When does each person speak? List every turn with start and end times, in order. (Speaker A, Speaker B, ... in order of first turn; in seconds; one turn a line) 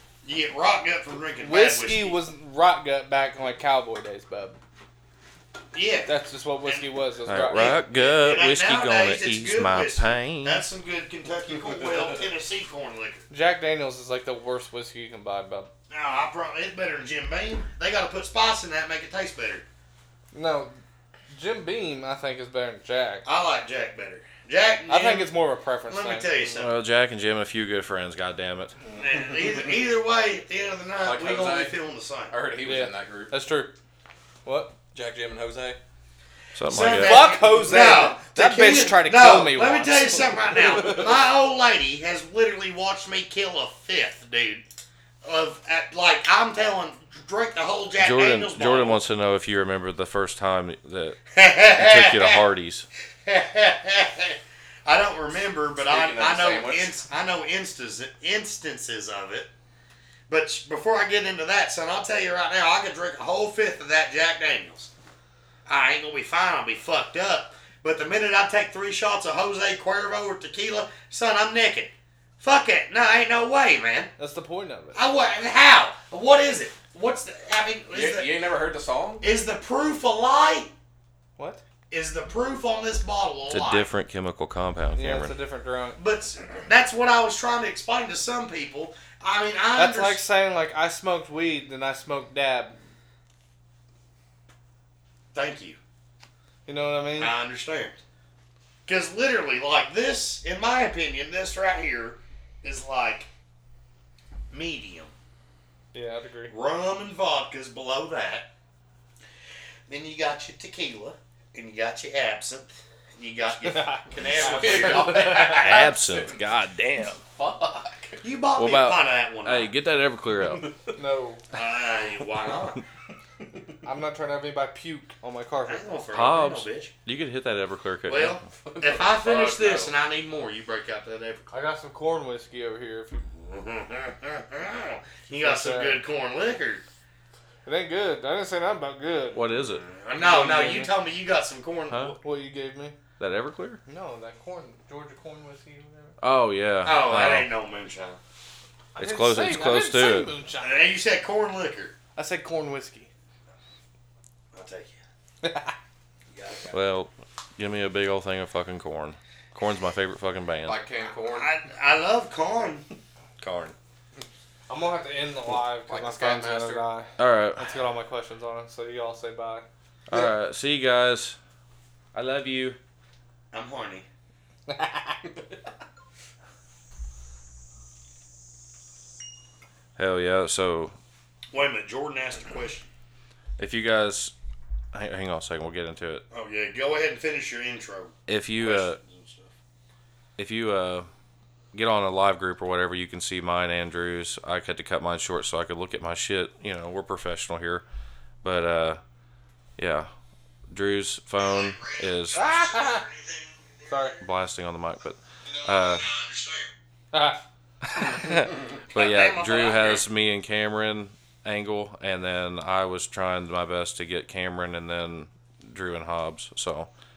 Speaker A: 0.2-2.2
Speaker B: 1.4-4.6
Speaker A: 5.7-6.1
Speaker B: 6.1-7.8
Speaker C: 7.3-10.6
Speaker A: 7.5-13.3
Speaker B: 13.3-15.7
Speaker A: 15.9-19.6
Speaker B: 20.3-20.8
Speaker B: 21.3-23.2
Speaker A: 23.2-25.4
Speaker B: 24.9-26.3
Speaker A: 25.9-26.8
Speaker C: 26.6-28.8
Speaker A: 29.0-32.3
Speaker D: 31.0-33.4
Speaker B: 32.6-33.7
Speaker B: 34.5-34.8
Speaker D: 34.9-35.8
Speaker C: 36.5-37.3
Speaker A: 36.7-44.6
Speaker B: 37.0-41.1
Speaker A: 45.2-49.0
Speaker C: 48.0-51.2
Speaker A: 51.3-52.4
Speaker C: 51.7-52.9
Speaker A: 53.2-59.5
Speaker D: 55.8-57.0
Speaker A: 60.3-64.9
Speaker A: 65.7-74.1
Speaker B: 74.2-75.0
Speaker A: 74.9-78.3
Speaker D: 77.9-79.2
Speaker A: 79.2-80.7
Speaker A: 81.9-83.9
Speaker C: 83.5-85.3
Speaker B: 85.0-86.0
Speaker A: 86.0-90.2
Speaker B: 89.8-92.8
Speaker A: 95.3-95.8
Speaker B: 96.7-97.3
Speaker A: 97.2-98.0
Speaker A: 98.9-103.3
Speaker A: 104.5-105.1
Speaker B: 105.9-106.5
Speaker A: 106.5-108.5
Speaker A: 109.9-115.8
Speaker B: 113.6-115.2
Speaker D: 114.2-116.4
Speaker C: 115.2-117.2
Speaker D: 117.3-118.2
Speaker A: 118.2-119.7
Speaker C: 118.6-120.7
Speaker D: 120.4-121.0
Speaker B: 121.0-121.4
Speaker A: 121.5-122.8
Speaker B: 123.8-125.9
Speaker A: 125.7-126.9
Speaker C: 126.1-128.4
Speaker A: 128.1-131.5
Speaker D: 128.7-129.9
Speaker B: 131.5-133.3
Speaker A: 133.3-136.8
Speaker B: 135.3-136.0
Speaker B: 137.7-139.4
Speaker C: 139.3-139.8
Speaker A: 139.8-142.2
Speaker B: 140.1-140.9
Speaker C: 141.9-142.2
Speaker B: 142.2-143.0
Speaker C: 143.2-143.8
Speaker B: 143.9-146.2
Speaker C: 146.2-147.5
Speaker A: 146.8-148.2
Speaker C: 149.0-150.3
Speaker B: 149.0-150.9
Speaker A: 150.6-151.9
Speaker B: 152.2-153.1
Speaker A: 154.5-155.0
Speaker B: 155.4-155.7
Speaker A: 156.3-156.8
Speaker C: 156.7-160.8
Speaker D: 160.7-161.5
Speaker A: 161.3-162.9
Speaker C: 163.4-163.8
Speaker B: 164.7-169.7
Speaker D: 165.9-166.9
Speaker C: 167.2-167.7
Speaker C: 170.1-171.4
Speaker C: 172.1-172.8
Speaker A: 173.5-174.1
Speaker B: 174.7-175.2
Speaker C: 180.0-180.9
Speaker A: 181.5-182.9
Speaker C: 183.6-184.3
Speaker C: 184.9-186.2
Speaker A: 186.3-189.5
Speaker C: 188.3-189.0
Speaker C: 190.4-191.1
Speaker C: 191.7-197.8
Speaker C: 198.4-199.0
Speaker C: 199.8-200.1
Speaker C: 200.7-202.4
Speaker A: 201.5-203.8
Speaker B: 202.3-203.1
Speaker B: 203.9-204.2
Speaker C: 204.2-206.1
Speaker A: 205.8-206.7
Speaker B: 207.1-207.4
Speaker C: 207.9-216.9
Speaker A: 208.9-210.1